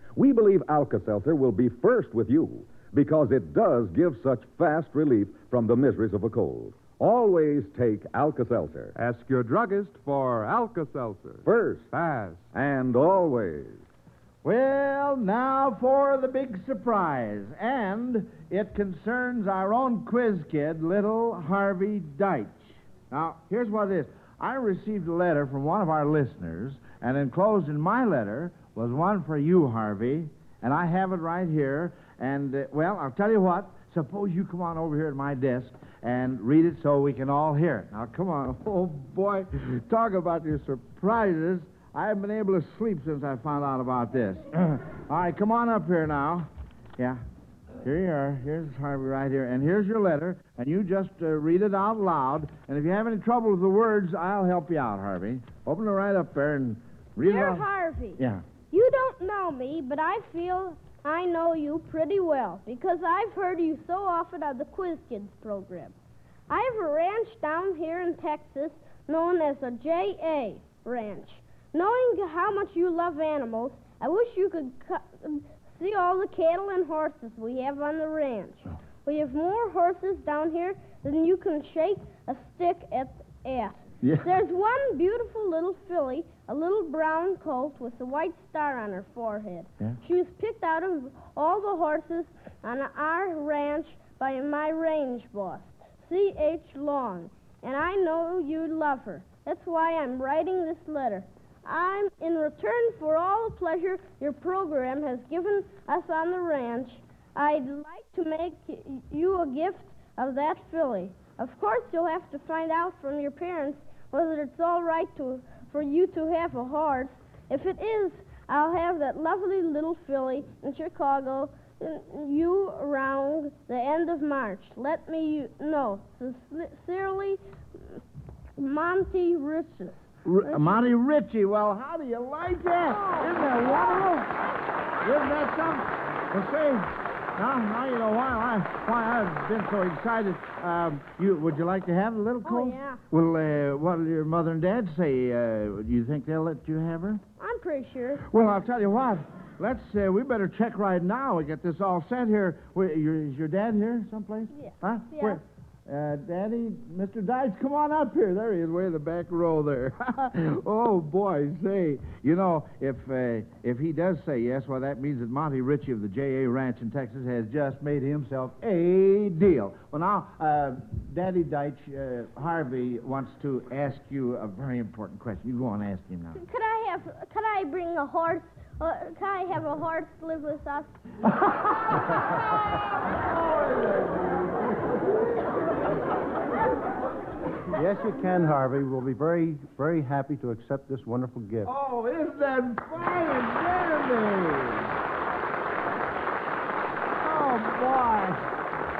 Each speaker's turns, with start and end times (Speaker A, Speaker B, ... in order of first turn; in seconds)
Speaker A: 0.2-8.9, 11.4-11.9, 12.5-13.8
Speaker B: 9.0-12.4
Speaker C: 14.4-47.2, 47.8-57.6, 58.2-58.4, 84.0-84.3, 130.2-134.3, 135.0-147.2, 148.3-176.4, 183.3-185.2, 191.7-194.9, 197.2-198.4
Speaker D: 57.2-66.0, 66.5-128.0, 128.6-130.0, 132.9-134.0, 142.4-143.0, 147.4-148.2, 154.5-155.4, 176.3-180.9
Speaker E: 187.7-191.7